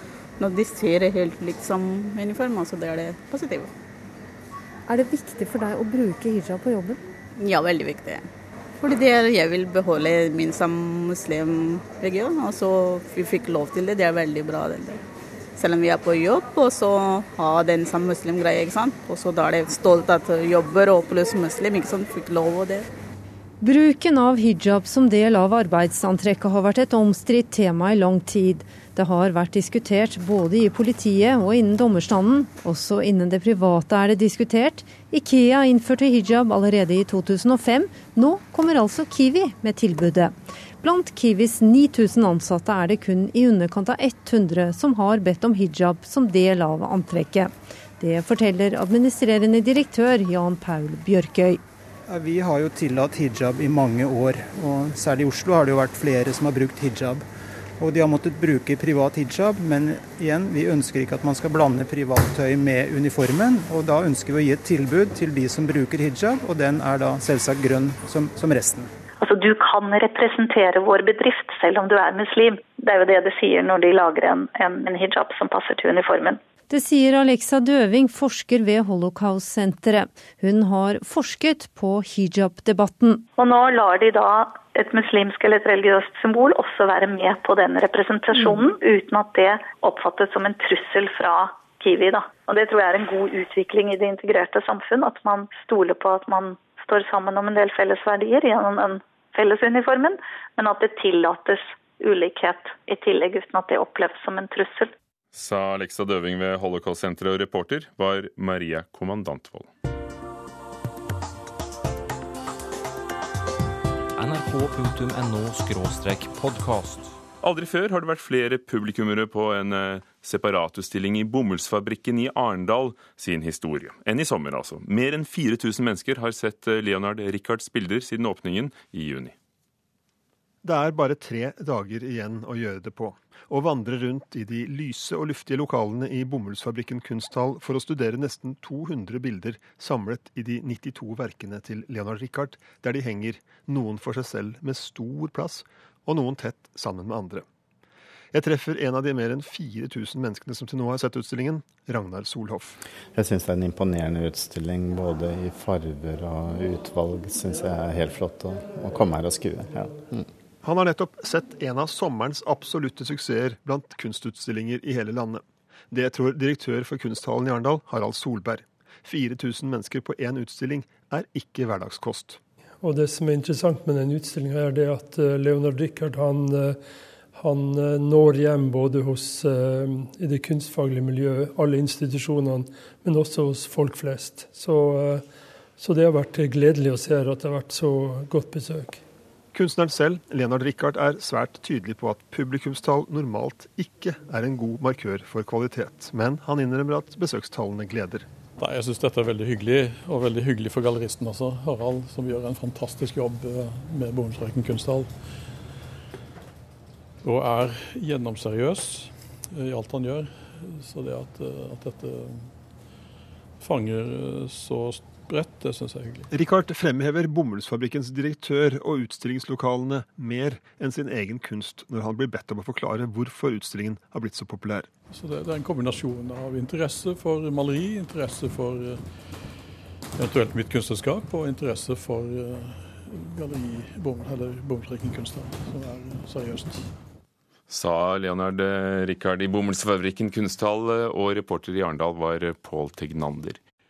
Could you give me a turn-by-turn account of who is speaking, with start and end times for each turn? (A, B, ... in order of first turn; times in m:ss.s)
0:00.4-0:03.7 A
0:04.9-0:07.0 B
0:07.4-0:08.3 A
0:08.8-0:15.0 A
0:15.6-0:22.9 A
0:23.6-0:51.6 B
0:52.1-0:57.2 C
0:57.8-1:08.9 C
1:09.2-1:16.4 D
1:16.7-1:23.3 B
1:23.4-1:44.9 D
1:45.3-1:49.7 E
1:54.2-1:57.2 F
1:57.4-2:09.3 E
2:10.6-2:27.4 G
2:28.3-2:32.8 G
2:33.1-2:40.2 H
2:40.6-2:52.4 G
2:52.8-2:56.8 I
2:57.4-3:05.2 I
3:05.8-3:09.0 I
3:09.5-3:18.3 G
3:18.6-3:25.1 J
3:27.2-3:32.5 J
3:33.6-3:36.3 J
3:36.3-3:44.9 G
3:45.1-3:49.0 J
3:50.2-3:56.9 J
3:57.7-4:03.6 E